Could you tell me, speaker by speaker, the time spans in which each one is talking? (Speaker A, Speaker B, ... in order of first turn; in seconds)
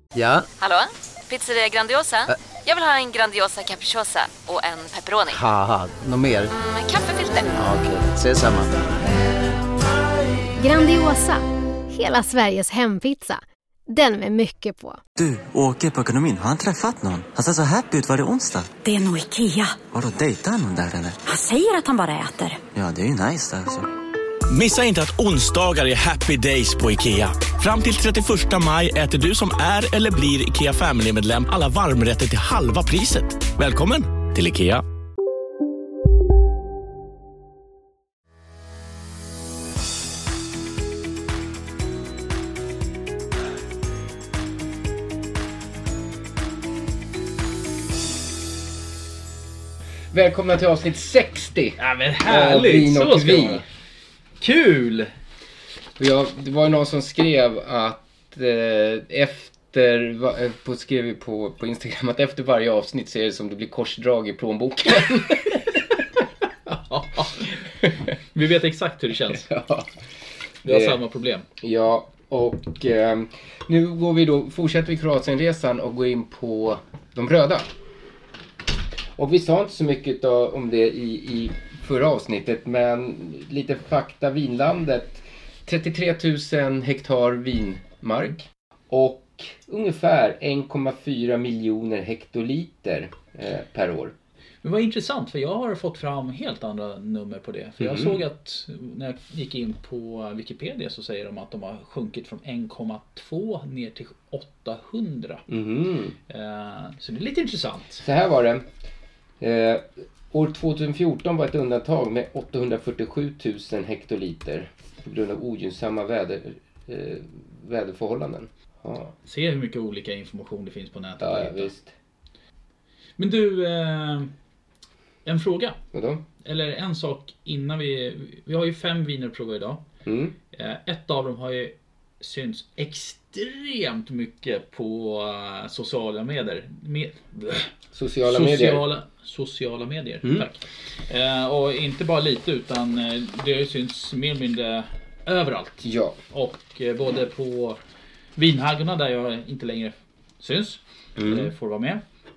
Speaker A: 0.1-0.4, 5.3-6.5, 7.5-8.9
Speaker B: 0.6-5.4, 6.5-7.6
Speaker C: 10.6-15.0
Speaker D: 15.2-18.7, 19.8-21.2, 22.7-23.9
Speaker E: 18.8-19.8, 21.2-22.6
Speaker F: 24.5-34.8
Speaker G: 50.1-53.6, 56.0-65.8, 69.3-69.9, 70.6-71.0, 71.6-77.7, 79.2-94.1, 97.8-98.2, 105.5-106.2, 108.0-108.7, 109.4-119.1, 121.2-121.9, 125.9-126.2, 130.0-130.3, 137.9-138.9, 145.8-146.2, 151.2-151.5
Speaker H: 51.8-53.6, 54.4-55.1, 66.7-67.6, 68.3-69.5, 70.6-71.5, 94.6-105.5, 106.3-108.0, 119.2-121.7, 123.2-124.3, 125.2-125.8, 126.4-129.8, 130.5-137.7, 138.3-147.8, 148.3-152.0